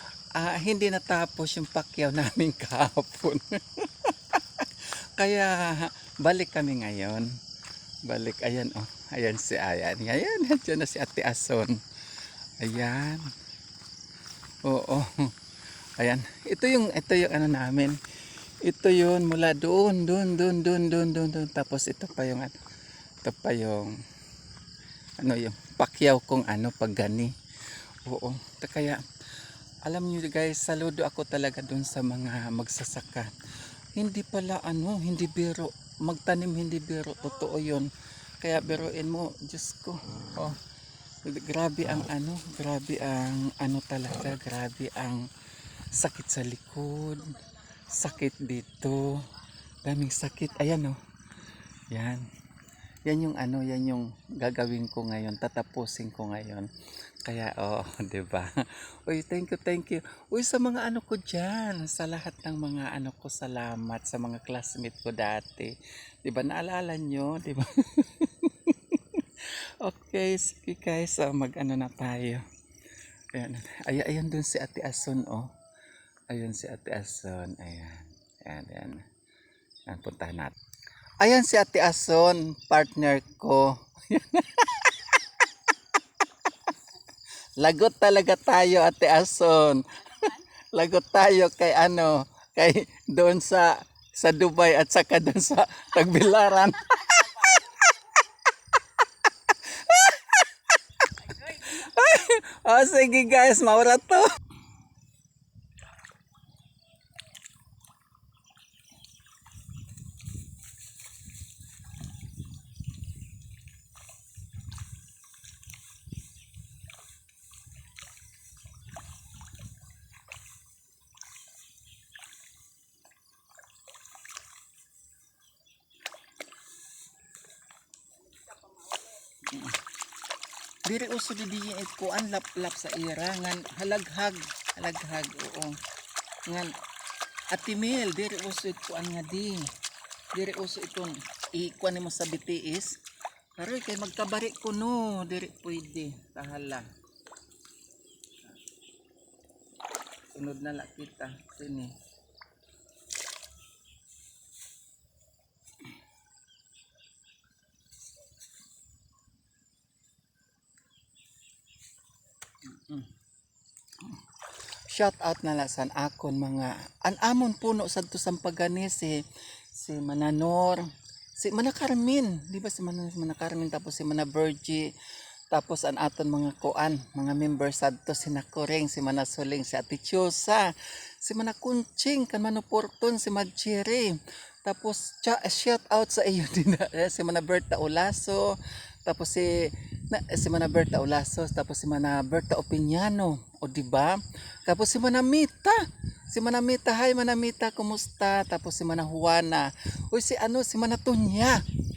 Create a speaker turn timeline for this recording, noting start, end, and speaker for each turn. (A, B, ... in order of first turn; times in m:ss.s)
0:00.4-0:07.4 A
0:08.1-0:11.8 A
0:12.6-0:13.3 A
0:14.6-0:15.3 A
0:16.0-0:18.0 A
0:18.6-0:22.5 A
0:23.2-0:24.0 A
0:25.2-0:27.3 A
0:28.0-0:29.0 A
0:29.8-0:33.3 A
0:34.0-0:40.6 A
0:41.2-0:45.2 A
0:45.9-0:51.0 A
0:51.9-0:52.3 A
0:53.1-0:56.7 A
0:57.2-1:12.4 A
1:13.3-1:15.5 A
1:16.3-1:19.1 A
1:19.9-1:20.6 A
1:21.2-1:25.5 A
1:26.4-1:26.8 A
1:27.6-1:38.2 A
1:39.0-1:44.4 A
2:09.3-2:09.8 A
2:10.8-2:15.8 A
2:16.5-2:16.7 A
2:17.5-2:19.7 A
2:20.3-2:23.0 A
2:23.6-2:26.9 A
2:30.3-2:32.0 A
2:42.6-2:43.1 A
2:44.0-2:44.3 A
2:44.9-2:55.0 A
2:55.5-3:21.6 A